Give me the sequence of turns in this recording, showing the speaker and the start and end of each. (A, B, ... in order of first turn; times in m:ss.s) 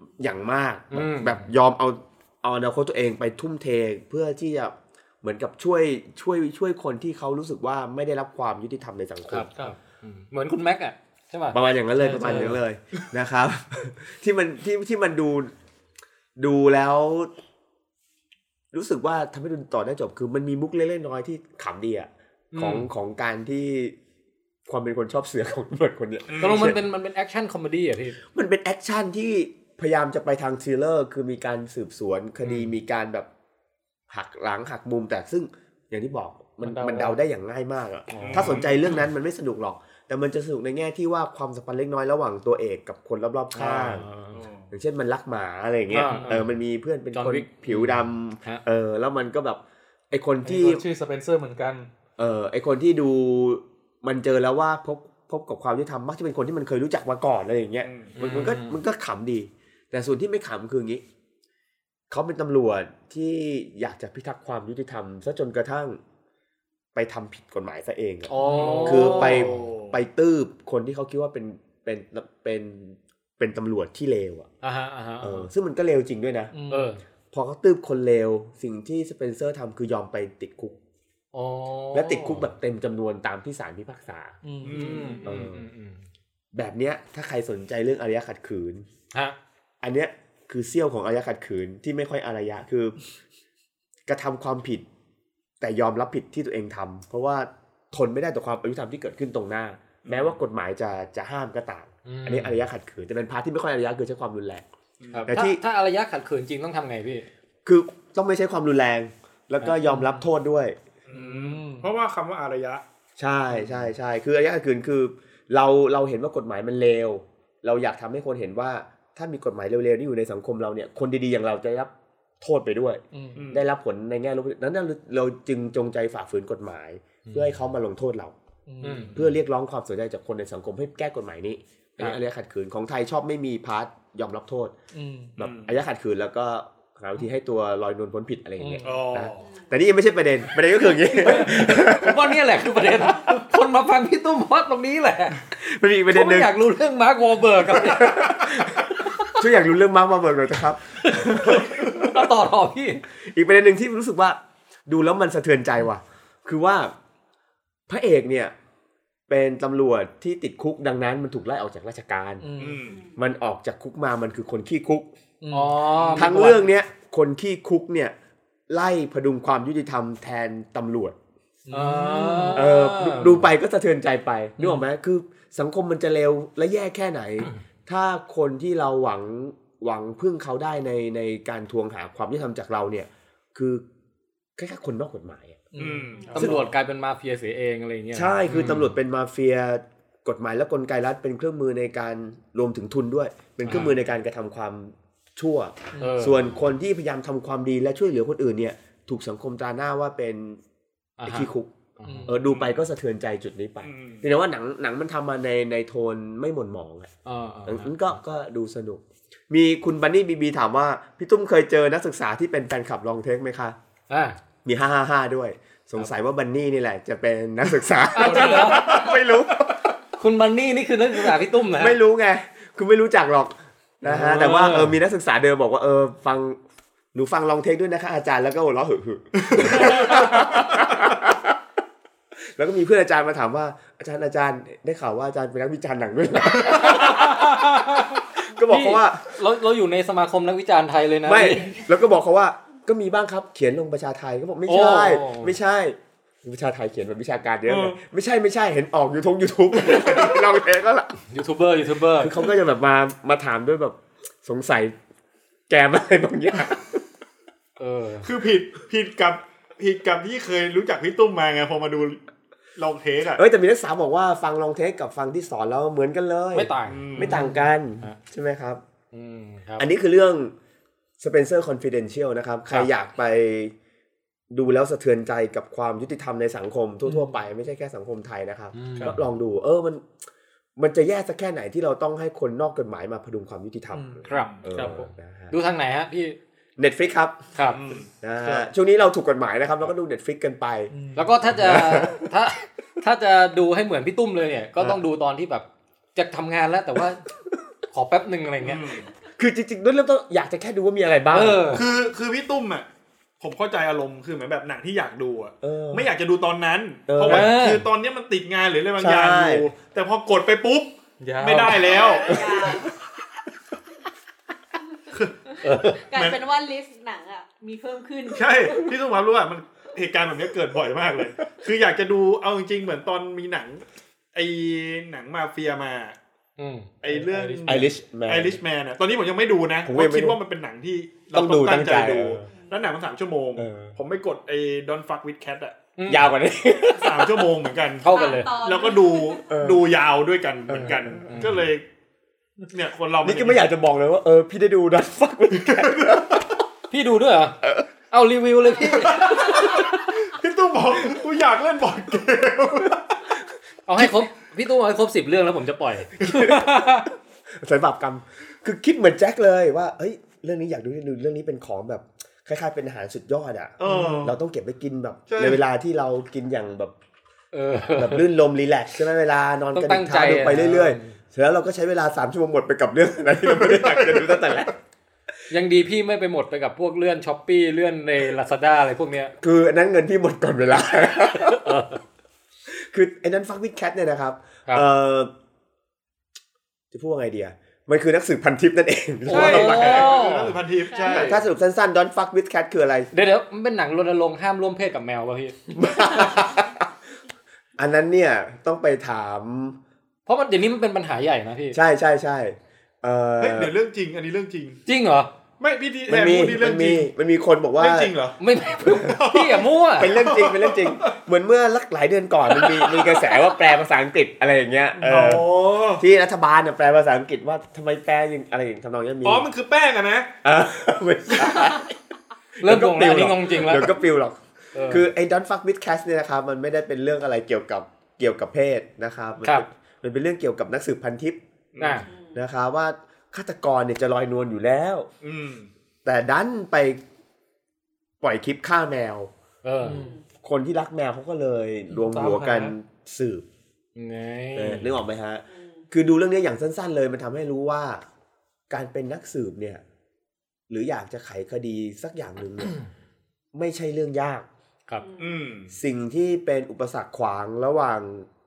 0:00.2-0:09.5 A
0:00.9-0:01.5 B
0:09.3-0:12.6 B
0:11.5-0:15.5 A
0:12.1-0:12.5 C
0:16.4-0:17.3 A
0:18.7-0:24.0 A
0:22.5-0:22.9 B
0:24.7-0:26.8 A
0:26.3-0:26.7 D
0:26.4-0:28.2 B
0:28.3-0:33.3 A
0:34.1-0:44.0 A
0:36.6-0:37.2 B
0:38.1-0:38.6 B
0:38.2-0:38.7 D
0:43.5-0:44.4 B
0:44.3-0:44.7 D
0:44.7-0:50.8 A
0:45.9-0:46.6 B
0:46.0-0:46.4 C
0:47.1-0:48.6 B
0:50.4-0:51.9 C
0:52.2-1:01.0 A
0:57.8-0:58.1 D
0:58.2-0:58.8 B
1:02.1-1:06.0 A
1:06.9-1:08.3 A
1:08.3-1:09.5 B
1:08.4-1:09.2 C
1:08.8-1:14.5 A
1:08.9-1:10.0 D
1:14.6-1:15.5 B
1:15.2-1:16.5 A
1:16.5-1:16.9 C
1:16.7-1:17.0 B
1:17.3-1:20.8 A
1:21.3-1:22.5 B
1:21.9-1:24.4 A
1:24.4-1:25.1 C
1:24.6-1:25.2 D
1:24.6-1:26.0 B
1:25.2-1:25.6 A
1:26.5-1:28.9 A
1:29.8-1:33.0 A
1:34.1-1:34.8 A
1:35.6-1:44.6 A
1:40.0-1:40.4 D
1:42.0-1:42.6 B
1:45.0-1:45.3 D
1:45.1-1:47.2 B
1:45.3-1:45.6 A
1:47.6-1:50.8 A
1:49.6-1:50.2 B
1:51.1-1:52.8 D
1:51.1-1:51.9 C
1:53.2-2:08.3 A
2:03.1-2:03.4 C
2:03.3-2:03.6 D
2:07.2-2:07.6 B
2:08.7-2:09.1 C
2:08.8-2:09.3 B
2:09.1-2:14.7 A
2:14.9-2:15.3 C
2:15.4-2:22.3 A
2:15.4-2:15.7 D
2:18.6-2:18.8 C
2:18.8-2:19.5 D
2:19.4-2:19.7 E
2:21.1-2:25.4 B
2:25.5-2:26.5 A
2:26.1-2:28.4 B
2:27.7-2:32.1 A
2:31.0-2:33.0 B
2:33.1-2:36.9 A
2:37.9-2:38.5 A
2:39.3-2:42.4 A
2:42.4-2:42.8 C
2:42.6-2:43.0 D
2:42.9-2:43.1 E
2:43.2-2:45.1 A
2:45.4-2:46.3 C
2:45.5-2:46.6 B
2:46.1-2:48.1 A
2:48.7-2:51.2 A
2:51.7-2:52.6 C
2:51.7-2:53.5 B
2:52.5-3:03.8 A
3:04.6-3:05.6 A
3:05.7-3:06.5 C
3:05.8-3:06.5 D
3:06.3-3:08.9 B
3:06.4-3:06.7 A
3:08.1-3:20.6 A
3:13.6-3:14.0 B
3:16.0-3:16.5 B
3:21.2-3:22.3 B
3:21.2-3:21.7 A
3:22.0-3:22.4 C
3:22.2-3:27.1 A
3:22.4-3:22.8 D
3:23.8-3:24.3 D
3:27.2-3:28.2 B
3:27.6-3:33.8 A
3:34.1-3:34.4 B
3:34.6-3:39.8 A
3:38.1-3:39.0 B
3:38.2-3:38.8 C
3:40.2-3:42.0 B
3:41.7-3:46.6 A
3:44.0-3:45.0 B
3:47.1-3:51.6 A
3:49.4-3:50.9 D
3:52.5-3:57.5 A
3:58.4-3:59.4 A
3:58.6-4:01.8 B
4:01.2-4:11.2 A
4:04.6-4:05.5 B
4:07.7-4:08.0 D
4:09.8-4:10.4 D
4:11.3-4:12.4 B
4:12.2-4:15.0 A
4:15.7-4:17.0 A
4:17.8-4:18.3 B
4:18.2-4:22.2 D
4:22.8-4:23.4 D
4:23.3-4:28.8 A
4:26.5-4:28.2 B
4:26.9-4:27.4 D
4:29.1-4:29.9 B
4:29.8-4:30.5 A
4:31.2-4:33.7 A
4:34.5-4:40.1 A
4:38.7-4:39.2 B
4:40.8-4:45.5 A
4:43.9-4:45.1 C
4:44.3-4:44.6 D
4:45.5-4:46.4 B
4:46.8-4:47.5 A
4:47.7-4:48.1 D
4:48.2-4:50.9 A
4:50.9-4:51.2 C
4:51.2-4:57.2 B
4:51.5-4:52.3 A
4:57.9-4:58.9 B
4:58.6-4:59.1 D
4:59.4-5:01.8 A
5:01.3-5:01.8 B
5:01.7-5:02.9 D
5:03.4-5:12.4 D
5:05.6-5:06.1 A
5:07.1-5:07.5 A
5:07.2-5:07.8 B
5:09.0-5:09.7 A
5:11.2-5:11.8 C
5:11.8-5:12.9 E
5:12.3-5:12.6 A
5:15.1-5:15.4 D
5:15.6-5:16.0 B
5:16.0-5:18.9 E
5:18.3-5:23.8 D
5:24.3-5:26.2 D
5:26.6-5:27.9 B
5:27.0-5:35.8 D
5:27.6-5:28.6 A
5:29.8-5:30.4 A
5:31.3-5:32.4 A
5:32.5-5:32.9 E
5:33.6-5:34.0 A
5:36.0-5:36.3 B
5:36.1-5:37.5 A
5:36.9-5:41.9 D
5:38.0-5:38.5 B
5:38.0-5:39.5 E
5:39.5-5:39.9 A
5:40.7-5:41.3 A
5:41.2-5:41.7 B
5:42.7-5:43.6 D
5:43.2-5:46.5 A
5:45.5-5:46.6 D
5:46.9-5:47.6 B
5:47.6-5:47.9 A
5:48.1-5:49.5 B
5:48.9-5:53.3 D
5:53.9-5:56.1 B
5:56.2-6:06.9 A
5:56.5-5:57.0 C
6:03.8-6:04.4 D
6:03.9-6:04.2 B
6:05.3-6:05.6 D
6:07.5-6:08.2 B
6:07.9-6:14.7 A
6:09.7-6:11.1 B
6:13.4-6:14.6 D
6:15.5-6:19.3 B
6:19.4-6:21.8 A
6:21.5-6:22.0 B
6:22.7-6:25.3 A
6:26.9-6:30.1 A
6:29.2-6:30.6 B
6:29.3-6:31.4 D
6:30.9-6:31.4 E
6:31.1-6:33.1 A
6:33.1-6:35.7 B
6:35.7-6:36.8 A
6:37.8-6:39.8 A
6:40.3-6:41.8 B
6:41.7-6:43.7 A
6:43.4-6:44.8 D
6:44.8-6:45.3 B
6:45.6-6:47.1 D
6:46.1-6:48.1 A
6:47.8-6:48.4 D
6:48.4-6:50.1 B
6:48.9-6:51.2 D
6:50.0-6:59.5 A
6:55.0-6:56.0 D
6:59.2-7:00.4 D
7:00.4-7:02.0 A
7:02.6-7:03.9 B
7:02.6-7:11.4 A
7:04.7-7:05.0 B
7:11.7-7:12.1 D
7:11.8-7:12.1 B
7:12.0-7:12.4 E
7:12.3-7:15.1 A
7:15.2-7:15.7 D
7:16.0-7:17.0 A
7:18.2-7:19.3 A
7:19.6-7:20.1 B
7:19.8-7:20.2 E
7:19.8-7:20.1 C
7:20.4-7:23.4 A
7:21.9-7:22.7 C
7:24.0-7:25.0 B
7:24.5-7:28.0 A
7:25.5-7:25.8 E
7:28.7-7:29.8 A
7:30.7-7:32.7 A
7:33.5-7:34.5 A
7:35.0-7:35.5 E
7:35.2-7:35.7 D
7:35.7-7:38.3 A